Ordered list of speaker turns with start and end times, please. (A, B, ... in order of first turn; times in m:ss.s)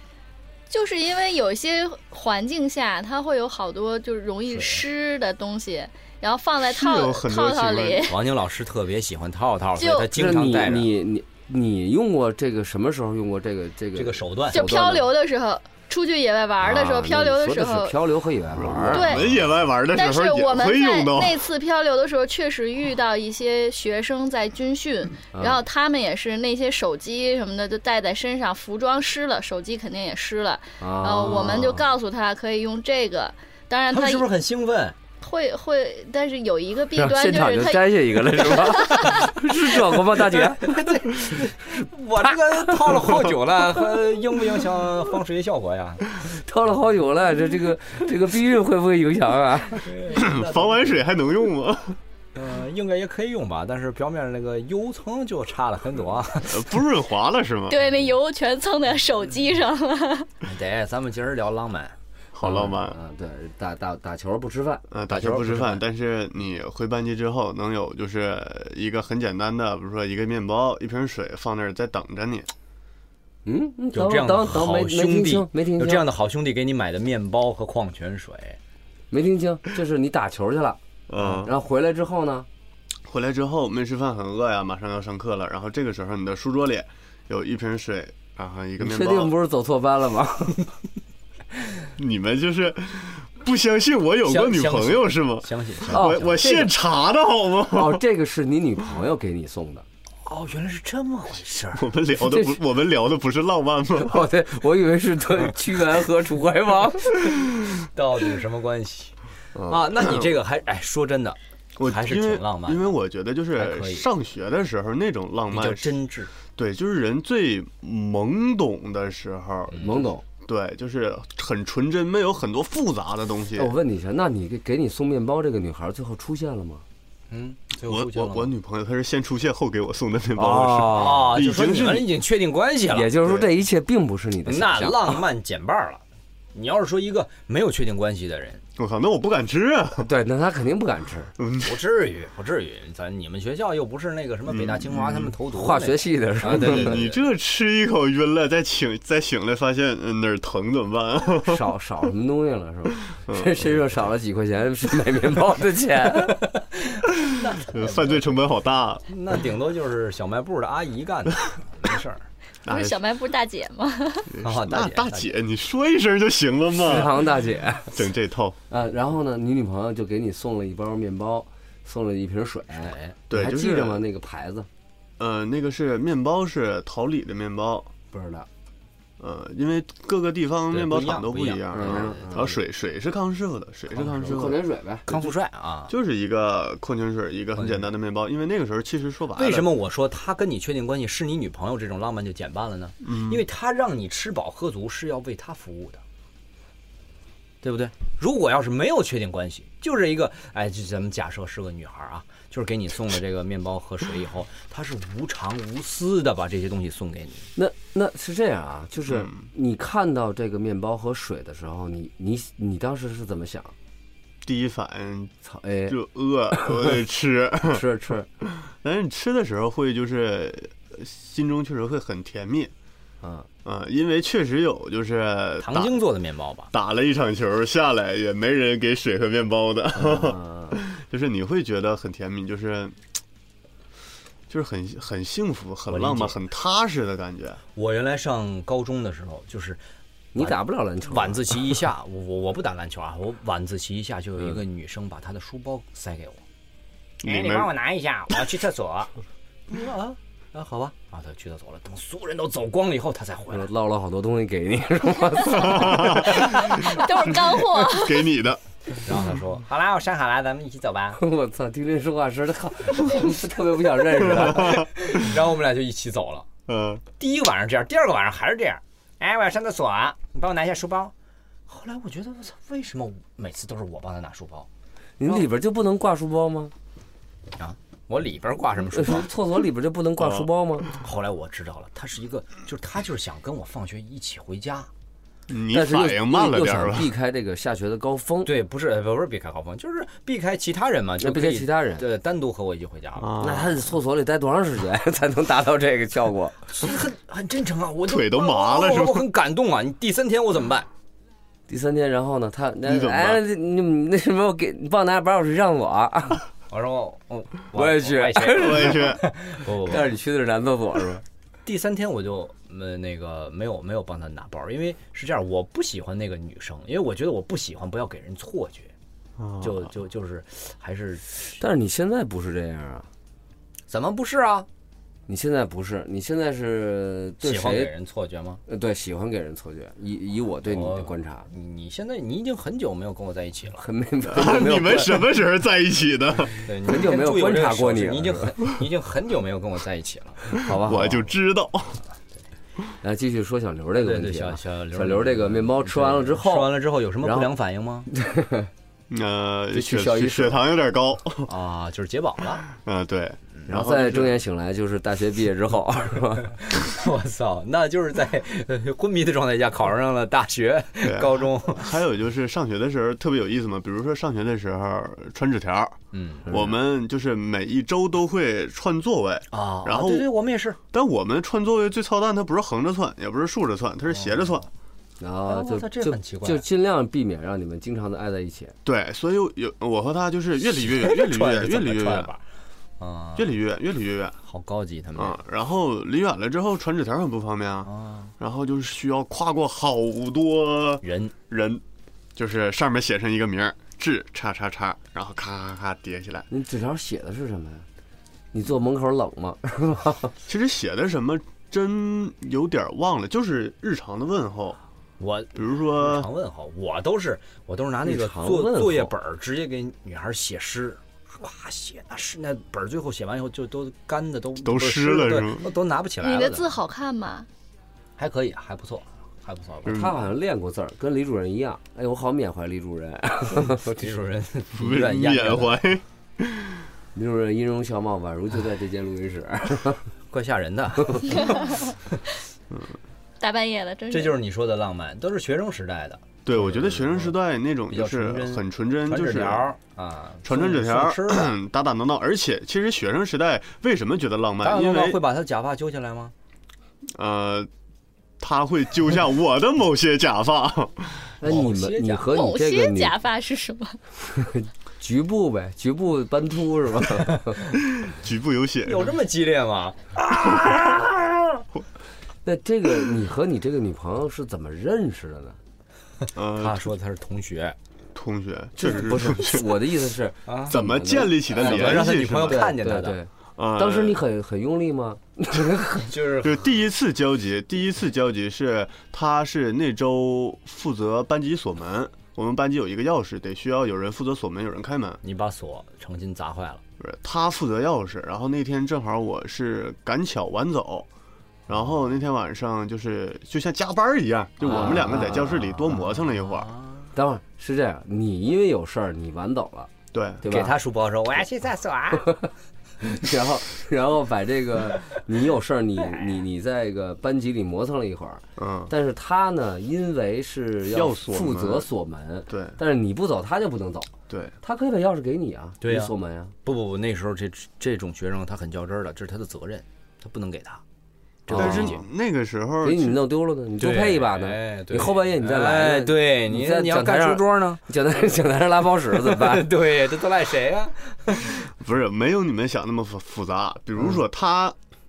0:00.7-0:08.2 A
0:04.5-0:04.8 B
0:06.6-0:08.1 C
0:08.0-0:10.9 B
0:09.8-0:10.1 A
0:10.1-0:15.1 D
0:13.9-0:14.7 B
0:14.5-0:18.0 A
0:16.6-0:19.2 D
0:18.5-0:21.5 C
0:18.9-0:19.2 A
0:19.9-0:34.3 A
0:25.3-0:25.6 D
0:30.8-0:31.9 D
0:33.9-0:35.0 B
0:35.2-0:39.1 A
0:36.9-0:40.8 D
0:38.9-0:39.3 B
0:40.1-0:46.0 B
0:42.7-0:43.0 D
0:46.2-0:49.9 D
0:49.8-0:51.0 B
0:50.1-0:52.0 C
0:52.3-0:56.7 B
0:56.4-0:57.8 C
0:57.7-1:00.3 A
1:00.4-1:02.0 B
1:02.3-1:03.0 C
1:02.4-1:05.5 D
1:04.9-1:12.5 C
1:05.2-1:05.8 B
1:13.4-1:16.0 D
1:13.9-1:18.6 B
1:19.1-1:22.5 D
1:21.1-1:21.5 C
1:23.0-1:29.3 C
1:28.8-1:30.7 D
1:32.0-1:38.0 C
1:34.2-1:36.4 B
1:35.9-1:36.7 D
1:37.7-1:39.8 D
1:40.2-1:41.9 B
1:41.7-1:44.3 C
1:42.2-1:42.6 D
1:44.0-1:47.4 D
1:47.9-1:49.1 B
1:49.5-1:50.3 C
1:49.7-1:52.9 B
1:51.8-1:56.0 C
1:53.5-1:54.1 B
1:55.5-1:56.3 B
1:56.5-2:03.7 C
1:59.7-2:00.0 B
1:59.8-2:00.2 D
2:03.5-2:06.8 D
2:07.3-2:08.5 B
2:07.9-2:12.1 C
2:10.3-2:11.4 D
2:10.9-2:13.2 B
2:12.9-2:15.2 D
2:14.4-2:16.0 B
2:16.5-2:18.6 B
2:18.8-2:20.1 C
2:20.0-2:21.3 D
2:21.4-2:21.8 C
2:21.6-2:27.2 B
2:24.5-2:25.3 C
2:25.5-2:27.1 D
2:26.4-2:31.7 C
2:31.4-2:36.4 D
2:33.0-2:33.8 C
2:36.5-2:38.2 B
2:37.7-2:39.0 C
2:39.1-2:42.2 B
2:42.6-2:43.0 C
2:42.7-2:44.3 A
2:44.3-2:47.3 C
2:44.4-2:45.3 B
2:46.8-2:48.0 D
2:47.9-2:48.6 C
2:48.7-2:54.7 D
2:52.8-2:53.2 B
2:53.3-2:54.0 C
2:55.2-2:57.9 C
2:58.1-2:58.5 D
2:59.2-3:04.6 C
3:00.7-3:02.6 B
3:01.7-3:02.5 D
3:03.9-3:04.4 B
3:04.2-3:05.1 D
3:05.1-3:05.9 B
3:05.9-3:09.7 C
3:07.6-3:07.9 B
3:09.4-3:16.0 B
3:13.0-3:13.4 C
3:17.6-3:27.5 B
3:27.5-3:33.7 D
3:29.1-3:29.4 C
3:34.4-3:35.3 C
3:35.4-3:36.0 D
3:35.9-3:37.8 C
3:36.5-3:37.0 D
3:37.6-3:38.3 D
3:38.6-3:42.7 C
3:43.2-3:43.5 D
3:43.6-3:46.0 C
3:45.6-3:46.7 B
3:46.7-3:53.0 C
3:50.0-3:50.8 D
3:54.5-3:57.6 C
3:55.9-3:56.4 B
3:57.8-3:59.8 B
4:00.3-4:01.6 D
4:00.4-4:06.4 B
4:07.2-4:07.7 C
4:07.2-4:09.1 B
4:09.7-4:13.7 B
4:13.5-4:16.5 D
4:15.5-4:18.6 C
4:16.3-4:18.3 A
4:19.0-4:21.2 B
4:21.2-4:24.8 D
4:24.3-4:24.9 C
4:24.5-4:26.5 B
4:26.7-4:27.0 C
4:27.2-4:31.1 B
4:31.7-4:34.7 B
4:35.2-4:36.7 D
4:37.6-4:39.3 B
4:38.9-4:40.9 D
4:40.2-4:40.5 C
4:41.0-4:44.9 B
4:45.5-4:47.1 C
4:45.7-4:48.5 D
4:48.4-4:53.4 B
4:51.2-4:52.0 D
4:53.2-4:53.8 C
4:53.4-4:56.6 D
4:56.7-5:00.9 B
4:58.1-4:59.3 C
5:01.7-5:06.4 D
5:02.8-5:03.4 C
5:06.7-5:10.1 B
5:07.7-5:09.2 D
5:08.5-5:09.2 C
5:09.8-5:11.2 D
5:11.6-5:18.9 B
5:19.4-5:19.8 C
5:19.6-5:21.6 B
5:21.6-5:23.1 D
5:23.9-5:24.7 B
5:25.3-5:27.9 D
5:27.4-5:28.6 B
5:28.7-5:31.5 D
5:30.6-5:33.8 B
5:33.8-5:35.4 D
5:34.3-5:36.6 C
5:36.6-5:40.5 B
5:36.8-5:38.5 D
5:40.5-5:41.3 D
5:40.5-5:42.0 C
5:43.0-5:47.5 D
5:43.9-5:48.1 B
5:48.1-5:48.7 D
5:49.1-5:51.5 C
5:49.7-5:50.6 D
5:51.4-5:52.6 B
5:52.7-5:54.4 C
5:53.7-5:56.5 D
5:56.6-6:01.9 B
6:01.0-6:10.3 C
6:06.1-6:06.5 B
6:09.5-6:10.8 B
6:10.9-6:14.7 C
6:14.1-6:14.7 B
6:15.2-6:18.7 D
6:15.4-6:16.6 B
6:18.8-6:22.3 C
6:20.6-6:22.4 B
6:23.0-6:23.5 B
6:23.4-6:24.4 C
6:24.4-6:25.4 B
6:25.2-6:31.8 C
6:27.8-6:28.3 B
6:31.0-6:31.3 B
6:32.4-6:36.5 C
6:36.5-6:37.8 D
6:38.5-6:40.3 D
6:40.4-6:44.8 C
6:45.2-6:56.7 B
6:45.6-6:46.3 C
6:48.0-6:49.1 D
6:54.6-6:55.7 C
6:56.2-6:57.5 A
6:58.2-7:00.1 B
6:59.8-7:04.0 D
7:03.8-7:05.8 B
7:04.8-7:06.8 C
7:07.1-7:10.0 D
7:10.3-7:11.6 B
7:13.4-7:14.4 A
7:14.1-7:17.3 B
7:16.4-7:19.7 C
7:17.9-7:21.5 B
7:20.4-7:25.2 C
7:24.6-7:26.3 B
7:27.1-7:27.7 C
7:28.4-7:31.3 C
7:31.4-7:33.1 D
7:31.4-7:32.3 B
7:32.3-7:34.0 A
7:34.2-7:37.6 D
7:37.8-7:39.1 C
7:38.8-7:41.3 B
7:42.4-7:45.6 D
7:46.3-7:46.9 C
7:46.5-7:47.8 B
7:48.1-7:49.7 C
7:48.8-7:56.1 D
7:50.5-7:50.7 B
7:50.7-7:52.7 C
7:51.5-7:53.2 B
7:53.6-7:54.2 C
7:56.1-7:56.6 B
7:56.4-8:05.2 C
8:05.2-8:06.8 B
8:07.0-8:11.1 C
8:11.7-8:16.7 C
8:14.6-8:16.0 D
8:14.7-8:15.4 B
8:16.0-8:17.1 B
8:17.1-8:19.9 D
8:20.1-8:20.4 C
8:20.4-8:20.7 D
8:20.4-8:22.4 B
8:23.0-8:34.1 D
8:28.6-8:28.9 C
8:30.9-8:31.9 C
8:32.5-8:32.8 C
8:34.3-8:34.5 C
8:34.6-8:36.5 D
8:35.8-8:36.1 B
8:36.6-8:40.8 B
8:41.4-8:42.0 B
8:41.5-8:42.0 D
8:41.5-8:43.2 C
8:42.8-8:49.7 D
8:43.8-8:47.8 B
8:49.1-8:51.6 B
8:51.7-8:54.8 C